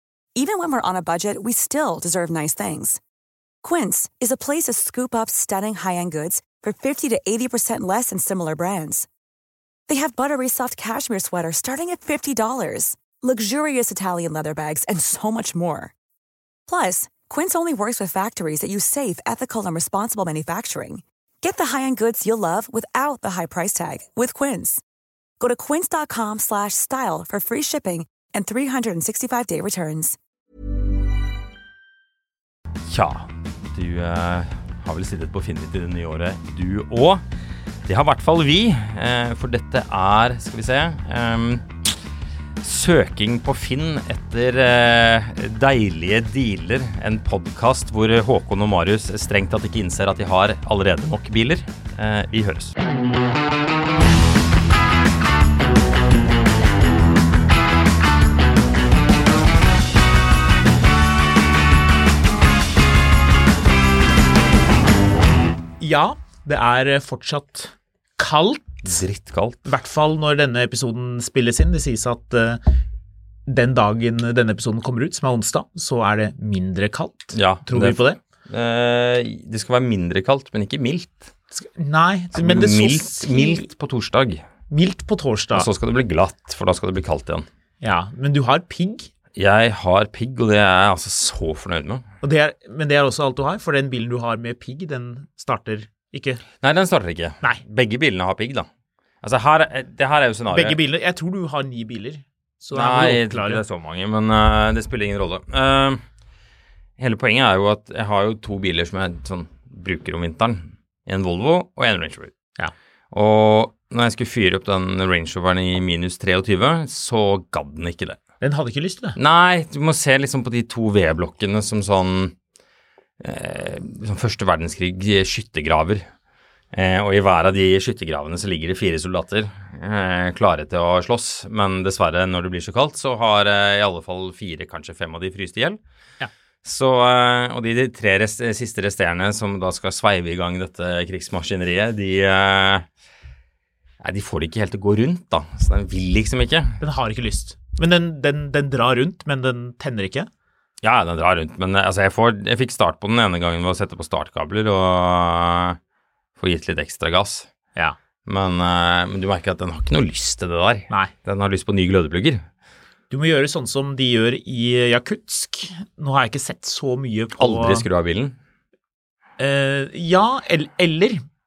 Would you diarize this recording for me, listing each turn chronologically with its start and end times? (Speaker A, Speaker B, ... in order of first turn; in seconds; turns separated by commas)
Speaker A: 0.3-3.0, Speaker A: 3.6-9.1, Speaker A: 9.9-15.9, Speaker A: 16.7-24.8, Speaker A: 25.4-30.2, Speaker B: 32.9-37.2, Speaker B: 37.9-41.9, Speaker B: 42.6-52.7, Speaker C: 65.8-68.8, Speaker B: 68.8-69.6, Speaker C: 69.7-72.6, Speaker C: 73.5-78.2, Speaker B: 77.3-81.3, Speaker C: 81.5-83.7, Speaker B: 82.3-84.4, Speaker C: 84.7-85.7, Speaker B: 85.5-87.5, Speaker C: 87.8-89.1, Speaker B: 89.3-92.0, Speaker C: 92.2-96.4, Speaker B: 96.6-98.7, Speaker B: 99.2-100.8, Speaker C: 100.5-103.6, Speaker B: 102.7-106.0, Speaker B: 107.0-112.3, Speaker B: 113.1-118.2, Speaker C: 118.4-119.2, Speaker B: 119.2-122.3, Speaker B: 123.2-126.0, Speaker B: 126.7-135.8, Speaker B: 136.6-142.9, Speaker B: 144.0-146.8, Speaker C: 146.8-150.3, Speaker B: 150.8-155.8, Speaker B: 156.4-157.5, Speaker B: 158.2-162.4, Speaker C: 163.1-167.8, Speaker B: 167.4-168.3, Speaker C: 169.4-171.2